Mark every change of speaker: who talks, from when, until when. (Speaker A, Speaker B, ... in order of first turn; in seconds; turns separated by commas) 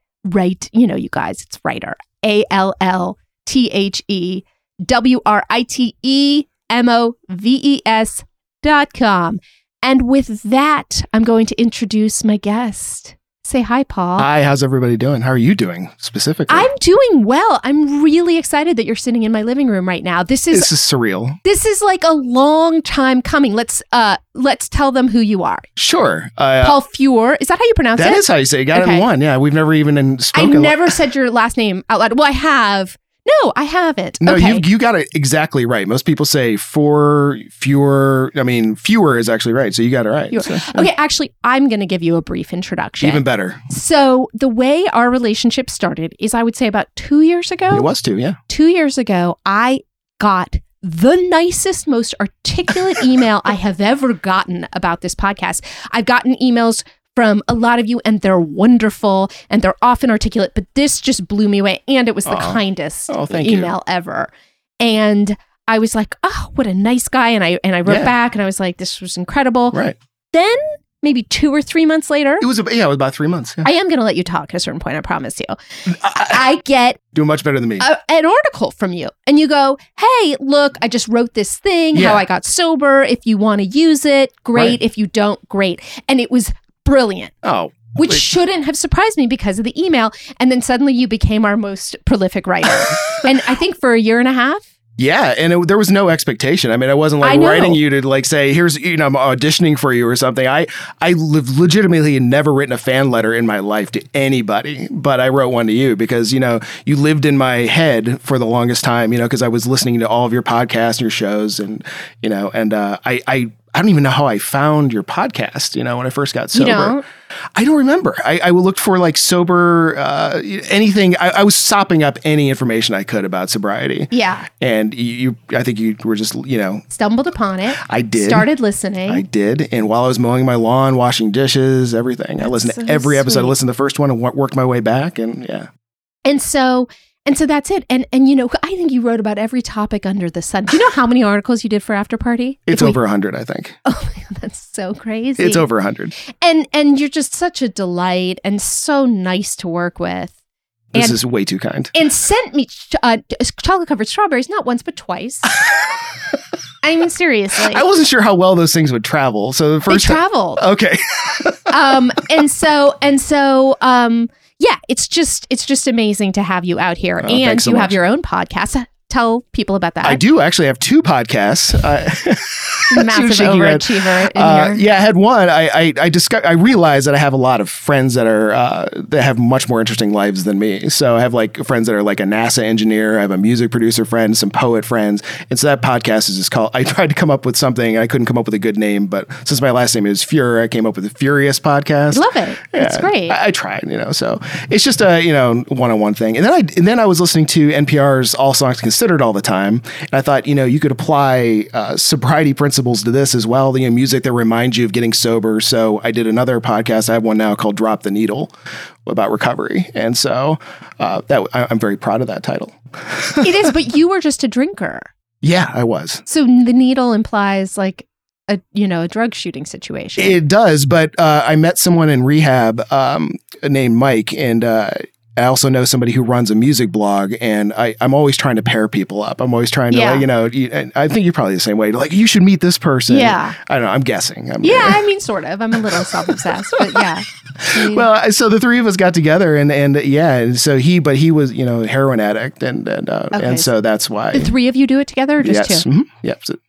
Speaker A: 0.2-14.3, Speaker B: 14.2-16.7, Speaker A: 16.5-20.7, Speaker B: 20.5-21.4, Speaker A: 21.4-25.7, Speaker B: 25.8-26.8, Speaker A: 26.6-29.1, Speaker B: 28.0-30.9, Speaker A: 30.3-34.6, Speaker B: 34.2-40.9, Speaker A: 40.3-47.9, Speaker B: 43.0-43.7, Speaker B: 47.7-48.4, Speaker A: 48.5-69.8, Speaker B: 62.3-63.7, Speaker B: 67.9-68.1, Speaker A: 70.3-72.5, Speaker B: 72.4-73.7, Speaker A: 73.6-77.0, Speaker B: 75.9-76.4, Speaker B: 77.1-77.9, Speaker A: 77.8-87.3, Speaker B: 81.9-82.2, Speaker B: 87.4-88.3, Speaker A: 88.0-94.6, Speaker B: 95.0-117.0, Speaker A: 97.2-97.8, Speaker A: 116.5-117.0, Speaker B: 117.5-126.9, Speaker A: 124.1-124.5, Speaker A: 126.9-129.2, Speaker B: 127.8-128.5, Speaker B: 129.1-135.7, Speaker A: 132.4-133.6, Speaker A: 136.2-143.0, Speaker B: 142.7-143.8, Speaker A: 143.8-145.7, Speaker B: 145.4-146.1, Speaker A: 146.4-150.3, Speaker B: 150.9-151.9, Speaker A: 150.9-151.2, Speaker A: 151.9-155.5, Speaker B: 155.6-156.3, Speaker A: 156.8-157.8, Speaker B: 157.6-161.8, Speaker A: 159.9-160.6, Speaker A: 161.7-170.2, Speaker B: 167.2-168.0, Speaker B: 170.0-208.5, Speaker A: 172.9-174.8, Speaker A: 192.1-193.4, Speaker B: 209.1-213.7, Speaker A: 213.4-215.1, Speaker B: 215.4-216.2, Speaker A: 216.3-220.4, Speaker B: 220.2-235.1, Speaker A: 229.9-230.2, Speaker A: 233.1-233.6, Speaker A: 234.6-238.1, Speaker B: 235.7-237.1, Speaker B: 237.6-244.5, Speaker A: 243.3-243.7, Speaker A: 244.3-245.9, Speaker B: 245.4-246.6